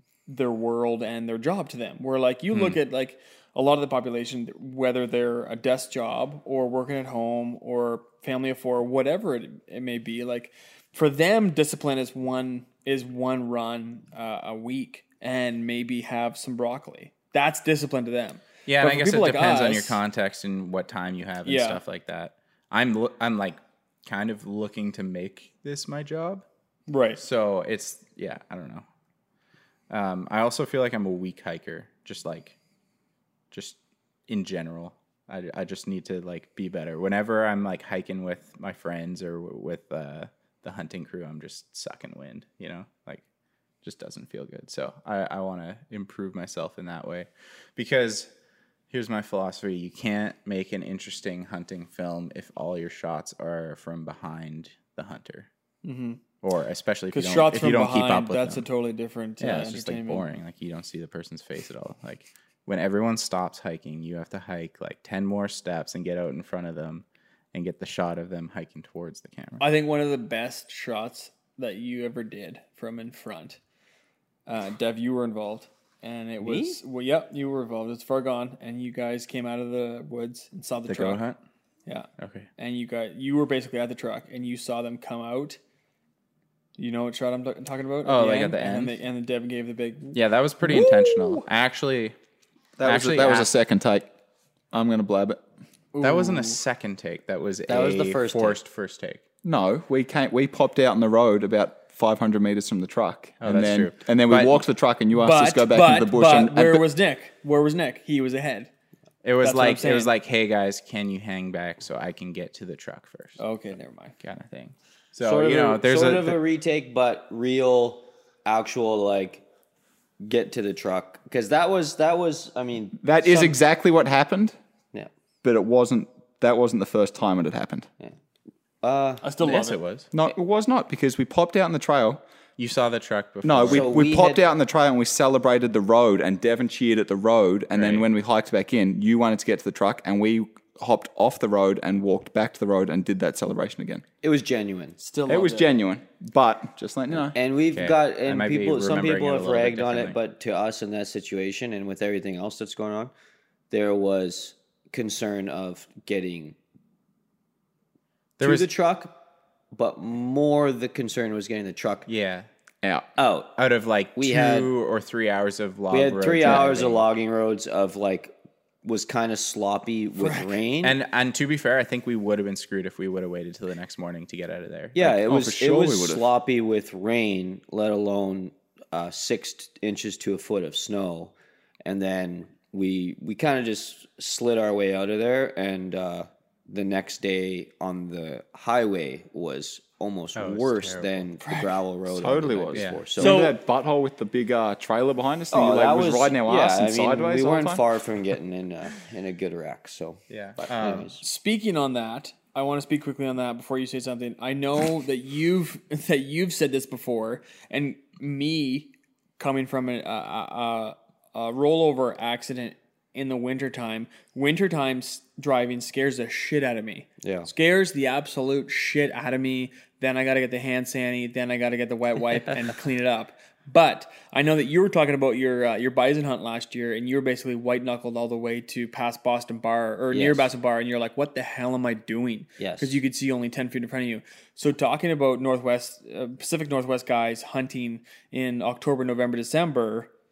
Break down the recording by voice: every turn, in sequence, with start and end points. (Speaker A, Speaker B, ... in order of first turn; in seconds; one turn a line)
Speaker A: 0.3-20.0
Speaker B: 2.5-2.8
Speaker C: 18.6-26.4
Speaker A: 21.4-21.8
Speaker A: 26.9-27.2
Speaker C: 27.2-28.9
Speaker C: 29.9-32.6
Speaker C: 33.5-43.2
Speaker C: 43.8-48.3
Speaker C: 48.9-55.5
Speaker A: 55.8-56.2
Speaker C: 56.4-58.7
Speaker A: 57.1-60.2
Speaker C: 59.4-69.6
Speaker A: 69.6-73.6
Speaker A: 74.5-81.2
Speaker D: 76.4-76.8
Speaker C: 80.8-81.4
Speaker A: 81.8-85.6
Speaker C: 82.2-82.5
Speaker A: 86.8-91.4
Speaker C: 88.0-89.0
Speaker C: 90.1-92.1
Speaker B: 92.8-94.1
Speaker C: 92.8-93.5
Speaker B: 94.7-95.4
Speaker A: 95.9-96.6
Speaker C: 96.0-99.2
Speaker D: 97.7-98.6
Speaker B: 99.4-106.8
Speaker C: 103.4-104.6
Speaker A: 105.1-108.7
Speaker C: 109.2-113.4
Speaker A: 109.4-110.1
Speaker A: 113.4-114.1
Speaker C: 114.2-116.4
Speaker D: 115.2-119.4
Speaker D: 120.2-123.0
Speaker B: 123.0-124.5
Speaker A: 123.2-123.5
Speaker B: 125.4-127.9
Speaker D: 128.8-129.2
Speaker A: 129.2-129.8
Speaker C: 129.4-130.1
Speaker B: 130.1-132.2
Speaker C: 132.6-133.9
Speaker B: 133.4-144.0
Speaker D: 133.6-134.4
Speaker C: 137.7-138.1
Speaker D: 144.2-145.0
Speaker A: 145.0-145.7
Speaker B: 145.3-147.3
Speaker D: 147.3-153.1
Speaker C: 147.7-150.2
Speaker D: 153.7-156.6
Speaker C: 158.4-158.7
Speaker D: 158.4-159.2
Speaker D: 159.7-162.1
Speaker C: 162.1-162.5
Speaker D: 163.2-163.6
Speaker C: 163.6-167.1
Speaker D: 164.1-164.7
Speaker D: 165.9-168.3
Speaker D: 168.8-171.0
Speaker A: 170.2-170.5
Speaker C: 170.8-175.0
Speaker D: 174.9-181.3
Speaker B: 175.0-176.3
Speaker D: 181.8-193.4
Speaker C: 190.3-191.3
Speaker A: 191.4-191.7
Speaker B: 192.1-197.8
Speaker C: 192.7-193.1
Speaker A: 193.2-193.6
Speaker D: 195.5-201.2
Speaker C: 200.3-201.2
Speaker A: 201.2-240.1
Speaker D: 217.2-217.5
Speaker D: 230.1-230.5
Speaker D: 232.6-233.0